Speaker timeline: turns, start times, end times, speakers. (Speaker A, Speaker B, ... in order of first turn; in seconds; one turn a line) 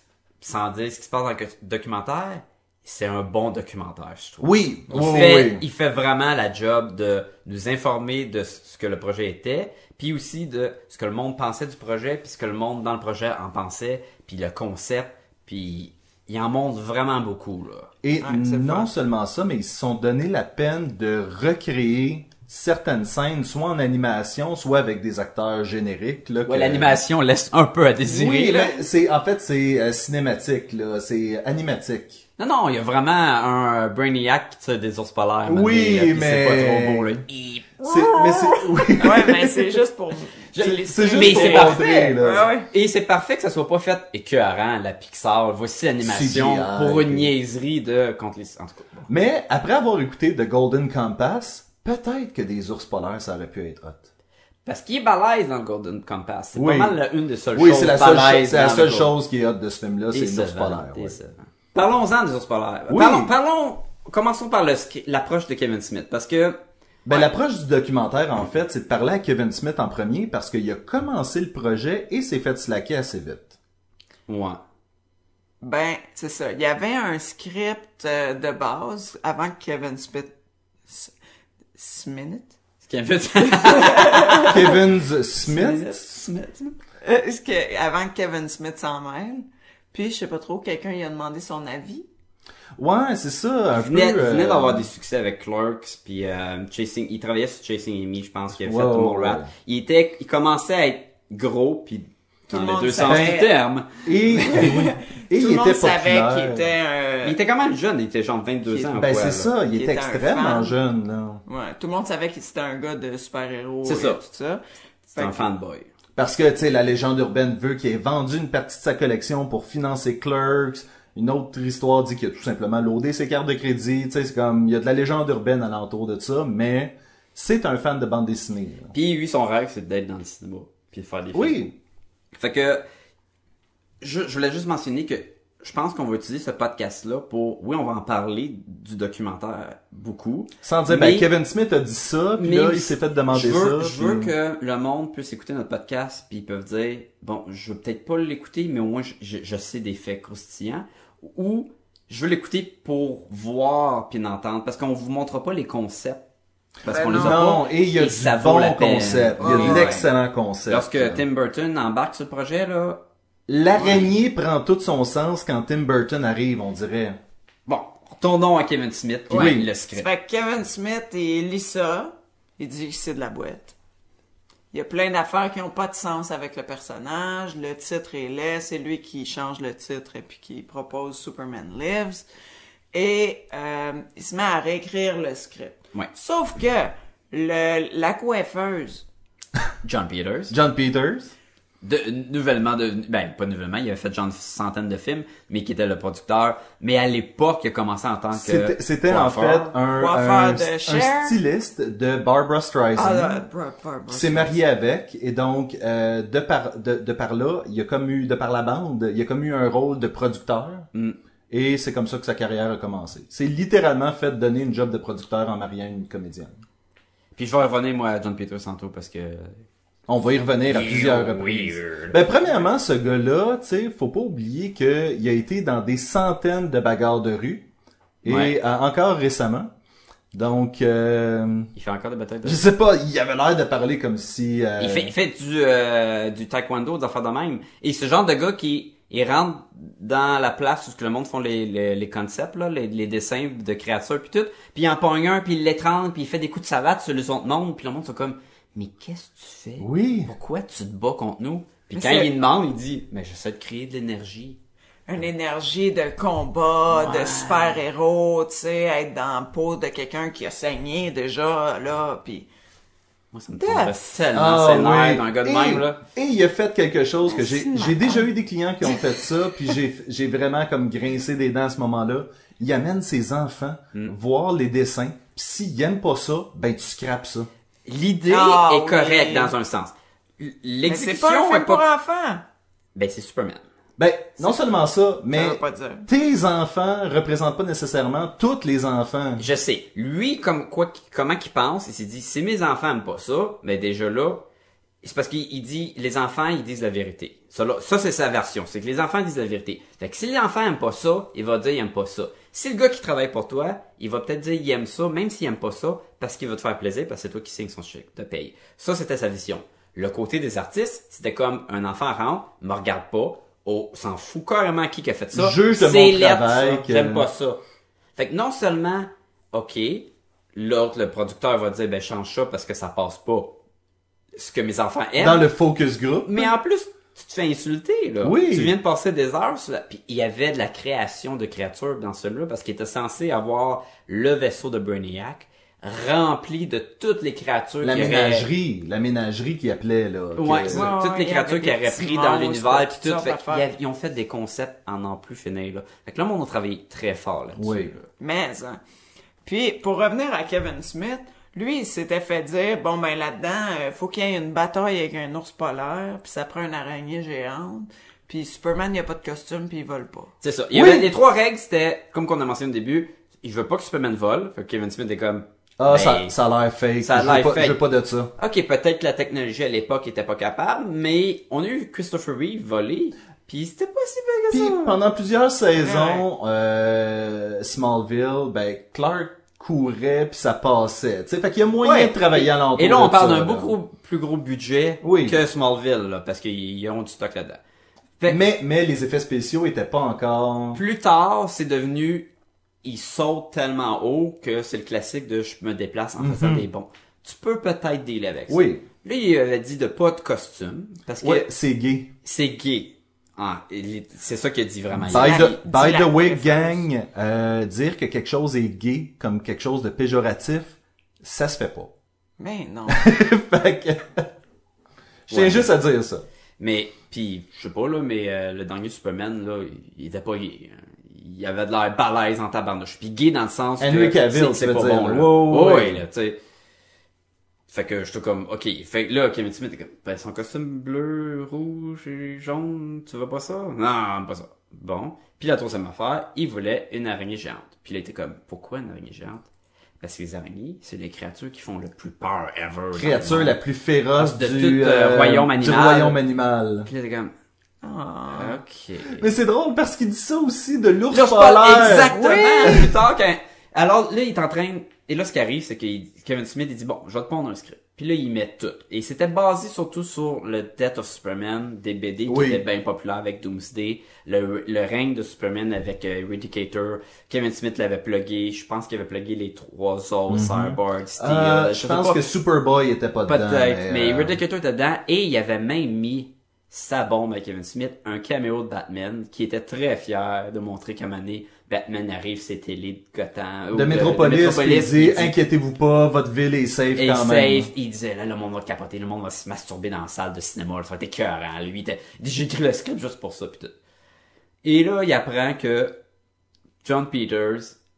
Speaker A: 0.4-17.9
Speaker B: 4.4-5.6
Speaker B: 18.0-27.0
Speaker C: 18.2-18.9
Speaker A: 26.4-28.7
Speaker B: 28.1-32.2
Speaker A: 32.4-37.8
Speaker B: 35.5-37.2
Speaker C: 37.8-42.7
Speaker B: 37.8-39.7
Speaker A: 40.5-42.1
Speaker B: 40.8-42.5
Speaker A: 42.7-49.1
Speaker B: 46.0-47.3
Speaker B: 49.1-54.1
Speaker A: 54.6-59.1
Speaker B: 56.5-57.0
Speaker B: 57.5-61.1
Speaker A: 60.1-66.6
Speaker B: 62.9-63.3
Speaker B: 67.0-73.5
Speaker A: 74.3-74.6
Speaker C: 75.6-80.3
Speaker C: 80.9-81.1
Speaker C: 81.7-82.5
Speaker A: 82.8-84.8
Speaker C: 83.5-84.7
Speaker B: 84.5-86.1
Speaker A: 85.5-86.7
Speaker C: 87.0-92.0
Speaker B: 92.8-94.9
Speaker A: 93.7-104.7
Speaker B: 98.6-99.5
Speaker C: 102.5-103.5
Speaker B: 103.0-103.4
Speaker B: 104.0-106.7
Speaker C: 104.3-107.4
Speaker A: 107.2-109.5
Speaker B: 108.9-111.4
Speaker C: 109.7-110.8
Speaker C: 111.5-114.6
Speaker A: 113.8-114.2
Speaker C: 115.1-115.5
Speaker A: 115.2-115.9
Speaker B: 116.2-128.9
Speaker A: 128.9-131.7
Speaker B: 131.3-131.7
Speaker A: 132.3-132.8
Speaker A: 134.0-141.3
Speaker B: 140.6-144.3
Speaker A: 142.4-156.2
Speaker A: 156.8-160.1
Speaker C: 156.8-157.4
Speaker B: 157.1-161.2
Speaker C: 159.4-160.1
Speaker A: 160.7-163.0
Speaker B: 163.5-167.2
Speaker A: 163.8-164.1
Speaker A: 167.7-170.1
Speaker B: 169.3-169.7
Speaker C: 169.9-173.7
Speaker C: 174.7-182.2
Speaker C: 182.9-189.0
Speaker A: 189.8-190.5
Speaker B: 190.5-191.3
Speaker A: 191.8-199.7
Speaker B: 198.3-203.4
Speaker C: 199.9-201.4
Speaker C: 202.9-204.6
Speaker B: 204.1-210.9
Speaker B: 211.5-216.5
Speaker A: 217.3-219.5
Speaker B: 220.1-227.6
Speaker A: 220.7-222.5
Speaker B: 228.2-229.7
Speaker A: 228.2-228.6
Speaker B: 230.3-231.7
Speaker A: 231.8-232.6
Speaker B: 232.4-235.1
Speaker A: 234.8-254.6
Speaker B: 249.8-250.3
Speaker C: 251.9-252.3
Speaker C: 255.1-262.5
Speaker A: 256.9-257.8
Speaker A: 263.3-266.0
Speaker C: 263.5-263.9
Speaker B: 264.3-277.5
Speaker C: 267.3-268.2
Speaker A: 277.9-281.8
Speaker C: 278.3-279.5
Speaker C: 280.8-282.4
Speaker A: 282.9-283.6
Speaker B: 284.0-289.4
Speaker C: 285.3-286.1
Speaker A: 289.4-294.4
Speaker A: 295.0-317.6
Speaker B: 315.3-317.3
Speaker A: 318.2-323.5
Speaker A: 324.3-325.4
Speaker B: 325.2-326.5
Speaker A: 326.2-338.5
Speaker B: 328.2-328.7
Speaker B: 337.8-340.9
Speaker A: 340.4-348.1
Speaker C: 340.7-343.6
Speaker B: 347.6-347.9
Speaker C: 348.2-348.8
Speaker C: 349.4-360.3
Speaker A: 360.4-366.3
Speaker B: 360.7-361.1
Speaker B: 365.8-368.3
Speaker A: 367.0-367.8
Speaker A: 368.4-374.9
Speaker B: 374.5-383.7
Speaker C: 375.8-376.2
Speaker A: 381.8-387.6
Speaker B: 385.0-385.4
Speaker B: 388.3-390.8
Speaker A: 390.7-392.3
Speaker A: 392.8-401.5
Speaker B: 396.2-396.6
Speaker B: 398.5-398.8
Speaker B: 401.2-402.1
Speaker A: 402.2-405.5
Speaker B: 404.9-411.9
Speaker C: 405.1-406.8
Speaker C: 412.4-413.0
Speaker B: 412.9-414.3
Speaker B: 415.3-416.2
Speaker A: 415.3-415.7
Speaker A: 416.6-426.4
Speaker B: 423.8-426.0
Speaker A: 427.7-439.4
Speaker A: 440.0-443.6
Speaker B: 442.9-446.9
Speaker A: 444.1-446.2
Speaker A: 446.9-447.3
Speaker C: 447.8-448.6
Speaker A: 448.3-449.3
Speaker B: 449.1-452.9
Speaker A: 451.1-472.3
Speaker C: 451.9-452.9
Speaker B: 462.2-462.6
Speaker B: 470.3-474.4
Speaker A: 473.3-485.3
Speaker B: 483.7-487.7
Speaker A: 486.9-493.7
Speaker A: 494.6-495.9
Speaker A: 496.8-497.8